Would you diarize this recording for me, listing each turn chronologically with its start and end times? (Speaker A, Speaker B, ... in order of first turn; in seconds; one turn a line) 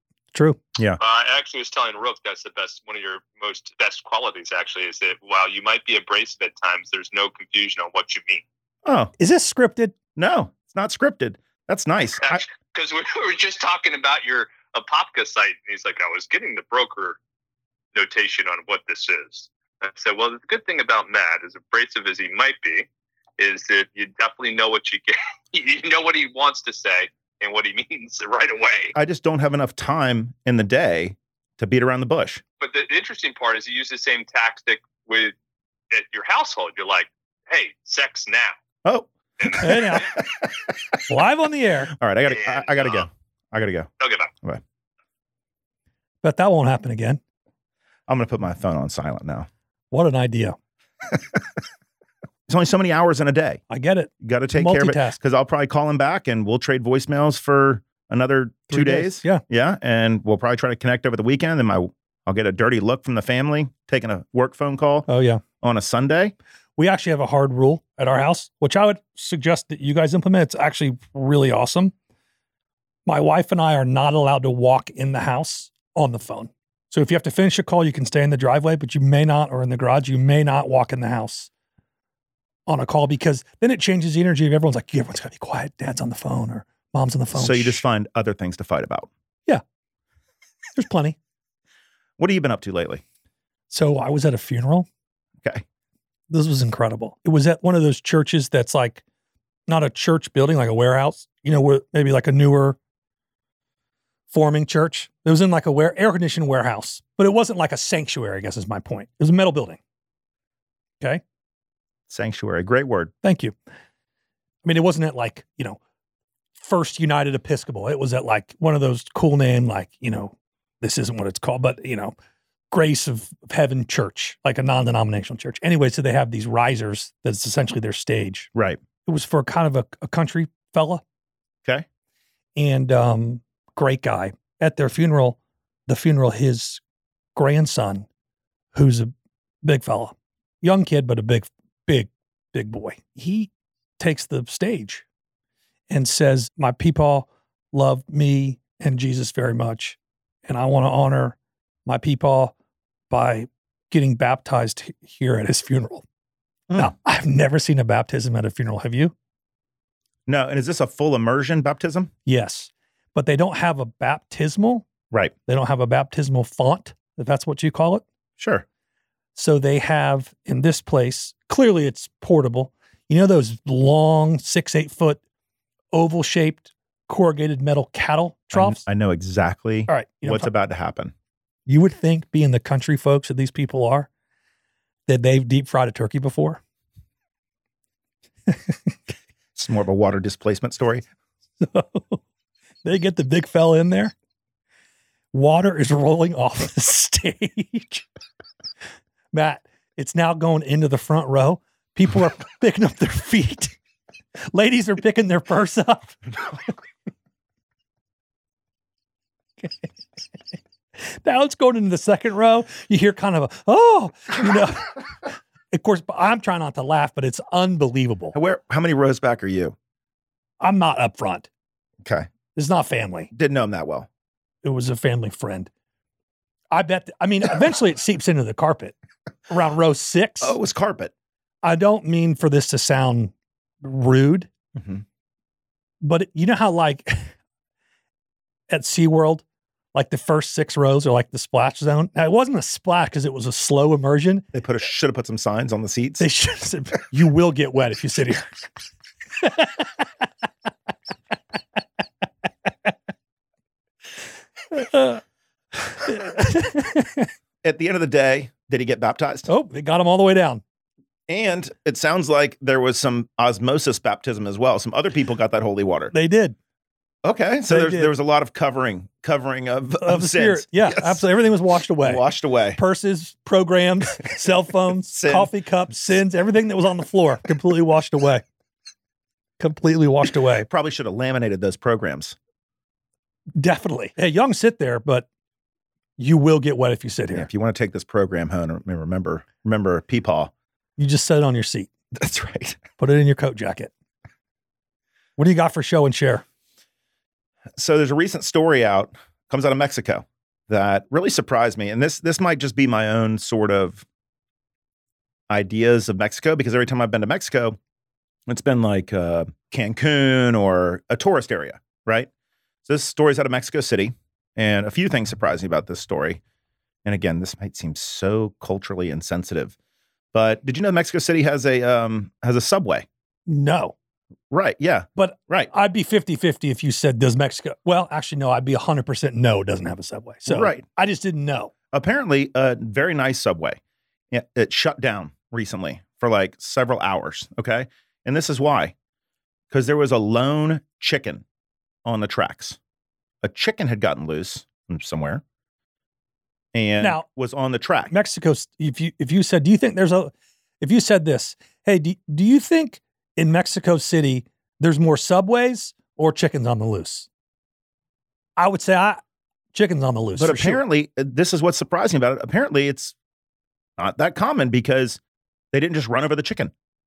Speaker A: 0.3-0.6
Speaker B: 1.0-8.4
Speaker C: 8.8-9.1
Speaker A: 9.2-9.9
Speaker C: 10.2-12.4
Speaker B: 12.2-17.2
Speaker B: 17.9-22.9
Speaker B: 23.4-28.9
Speaker C: 28.9-32.4
Speaker B: 32.6-35.4
Speaker B: 35.9-38.5
Speaker C: 38.9-40.5
Speaker A: 39.6-40.1
Speaker A: 41.1-41.9
Speaker C: 42.0-43.9
Speaker B: 42.3-43.1
Speaker B: 44.0-44.3
Speaker A: 46.2-47.2
Speaker C: 48.1-49.5
Speaker A: 49.9-50.6
Speaker C: 52.5-53.6
Speaker A: 53.7-55.2
Speaker C: 54.2-65.1
Speaker A: 58.7-59.4
Speaker A: 65.1-65.4
Speaker C: 65.6-66.3
Speaker A: 66.8-71.9
Speaker A: 73.1-81.5
Speaker A: 82.7-87.8
Speaker C: 87.3-89.1
Speaker A: 90.8-91.2
Speaker C: 92.2-93.0
Speaker A: 93.7-94.9
Speaker A: 96.3-99.0
Speaker A: 99.7-102.8
Speaker A: 104.3-109.8
Speaker C: 112.1-113.1
Speaker A: 113.2-113.5
Speaker A: 114.6-115.8
Speaker A: 116.6-122.2
Speaker A: 122.7-128.5
Speaker C: 128.6-128.8
Speaker A: 129.1-131.0
Speaker A: 132.6-136.8
Speaker A: 137.4-138.1
Speaker A: 138.7-139.1
Speaker A: 139.6-145.0
Speaker A: 145.9-152.6
Speaker A: 153.1-156.1
Speaker A: 156.8-159.1
Speaker C: 160.3-162.1
Speaker A: 162.3-164.9
Speaker A: 165.5-168.0
Speaker C: 168.4-168.7
Speaker A: 169.4-175.2
Speaker A: 175.9-178.8
Speaker C: 178.5-181.1
Speaker A: 179.9-180.5
Speaker A: 181.7-184.1
Speaker A: 185.1-186.6
Speaker A: 188.5-188.9
Speaker C: 189.6-191.1
Speaker A: 191.6-192.2
Speaker A: 192.8-194.1
Speaker A: 195.3-198.1
Speaker A: 199.3-203.8
Speaker A: 204.5-206.2
Speaker A: 209.6-209.9
Speaker A: 211.0-218.4
Speaker C: 218.3-219.8
Speaker A: 220.6-221.5
Speaker C: 222.0-222.3
Speaker A: 222.6-223.3
Speaker C: 223.3-224.1
Speaker A: 224.6-225.7
Speaker A: 226.7-228.9
Speaker A: 229.5-230.6
Speaker C: 230.4-231.1
Speaker A: 231.6-234.5
Speaker C: 234.8-235.0
Speaker A: 236.0-237.3
Speaker A: 238.7-244.5
Speaker C: 244.5-246.3
Speaker A: 246.2-248.5
Speaker A: 249.4-250.0
Speaker A: 254.7-255.2
Speaker A: 255.8-257.3
Speaker C: 257.6-259.5
Speaker A: 259.5-260.6
Speaker C: 261.3-266.1
Speaker A: 266.1-266.6
Speaker C: 267.2-271.3
Speaker A: 267.7-268.1
Speaker A: 270.0-272.2
Speaker C: 272.0-272.8
Speaker A: 272.8-278.4
Speaker C: 275.0-275.5
Speaker A: 279.6-280.7
Speaker C: 280.7-282.4
Speaker A: 283.6-285.3
Speaker A: 286.2-287.5
Speaker C: 287.3-290.5
Speaker A: 291.0-291.9
Speaker C: 292.1-292.8
Speaker A: 293.0-293.9
Speaker A: 295.4-296.4
Speaker C: 297.8-304.1
Speaker C: 305.5-307.8
Speaker C: 308.5-312.3
Speaker C: 312.9-316.4
Speaker C: 317.1-319.8
Speaker C: 320.3-323.1
Speaker A: 323.5-323.9
Speaker C: 324.5-325.7
Speaker A: 325.2-331.7
Speaker C: 330.5-330.9
Speaker C: 331.9-333.8
Speaker C: 334.3-338.9
Speaker C: 339.7-341.4
Speaker C: 342.1-342.8
Speaker C: 343.4-345.4
Speaker C: 346.7-348.1
Speaker A: 348.1-357.3
Speaker A: 358.6-359.2
Speaker A: 359.7-360.8
Speaker C: 360.4-363.1
Speaker C: 364.0-365.2
Speaker C: 365.7-366.7